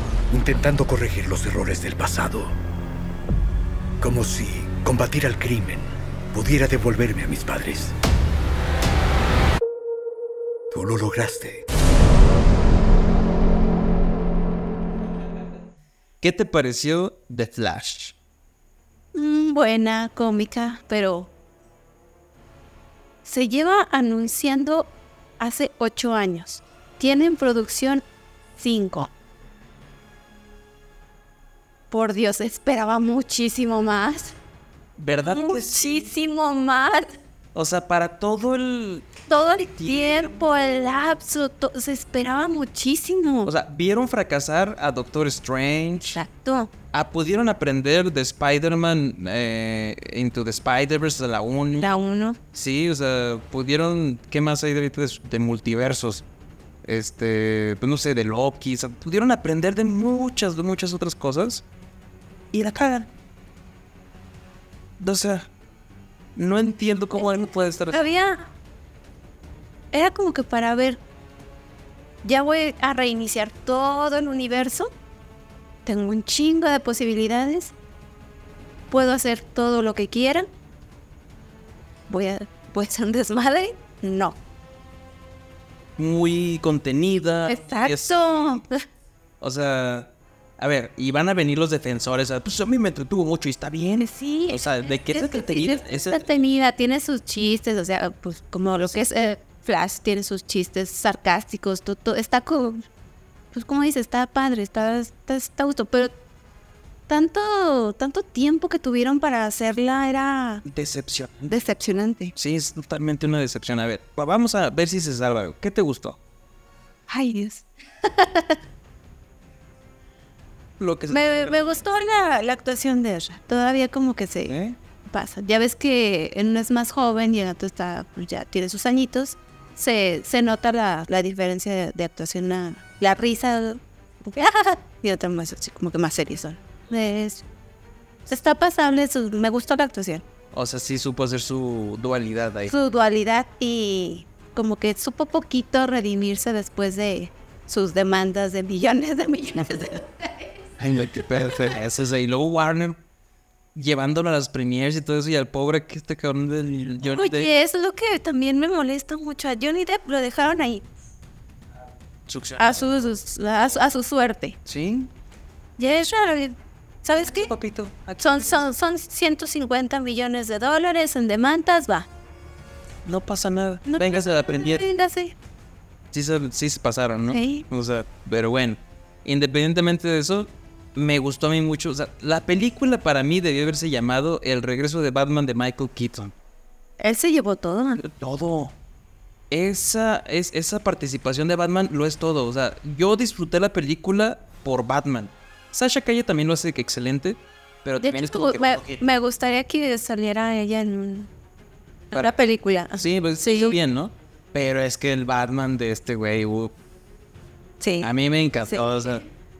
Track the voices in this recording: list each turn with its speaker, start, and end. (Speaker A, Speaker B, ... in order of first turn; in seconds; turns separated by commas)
Speaker A: 0.3-2.6, Speaker A: 4.0-8.0, Speaker A: 10.7-11.7, Speaker B: 16.2-18.1, Speaker C: 19.1-21.3, Speaker C: 23.2-28.0, Speaker C: 28.6-29.1, Speaker C: 31.9-34.3, Speaker B: 35.0-36.1, Speaker C: 35.2-37.1, Speaker B: 37.5-39.2, Speaker C: 39.3-43.5, Speaker B: 39.8-40.3, Speaker B: 43.5-46.2, Speaker C: 46.1-46.7, Speaker B: 46.9-51.9, Speaker C: 51.8-52.4, Speaker B: 52.5-56.2, Speaker B: 56.8-61.6, Speaker B: 62.5-63.1, Speaker B: 65.0-65.5, Speaker B: 66.4-68.0, Speaker C: 67.9-68.5, Speaker C: 69.9-71.0, Speaker C: 72.2-74.9, Speaker C: 75.8-77.7, Speaker C: 78.9-80.5, Speaker C: 82.1-84.4, Speaker B: 86.0-88.3, Speaker C: 87.5-88.8, Speaker B: 89.4-96.2, Speaker C: 94.0-102.8, Speaker C: 103.5-106.1, Speaker C: 107.1-110.6, Speaker B: 110.7-111.5, Speaker C: 111.5-112.3, Speaker B: 112.3-116.2, Speaker C: 117.1-118.6, Speaker B: 120.8-121.6, Speaker C: 121.1-124.6, Speaker B: 124.5-124.8, Speaker C: 125.1-137.4, Speaker C: 138.3-140.2, Speaker B: 140.5-142.7, Speaker C: 142.7-150.6, Speaker B: 150.8-153.0, Speaker B: 153.7-157.5, Speaker C: 157.1-160.9, Speaker B: 162.3-163.1, Speaker C: 162.6-164.6, Speaker B: 164.7-165.1, Speaker C: 165.8-167.5, Speaker B: 167.2-168.3, Speaker C: 168.2-172.1, Speaker B: 173.0-174.8, Speaker C: 173.9-175.3, Speaker B: 176.1-186.3, Speaker C: 177.3-177.6, Speaker C: 187.0-188.0, Speaker B: 188.0-188.7, Speaker B: 189.5-199.0, Speaker C: 198.0-201.3, Speaker C: 202.1-203.8, Speaker B: 202.9-206.7, Speaker C: 207.8-208.9, Speaker B: 208.0-209.2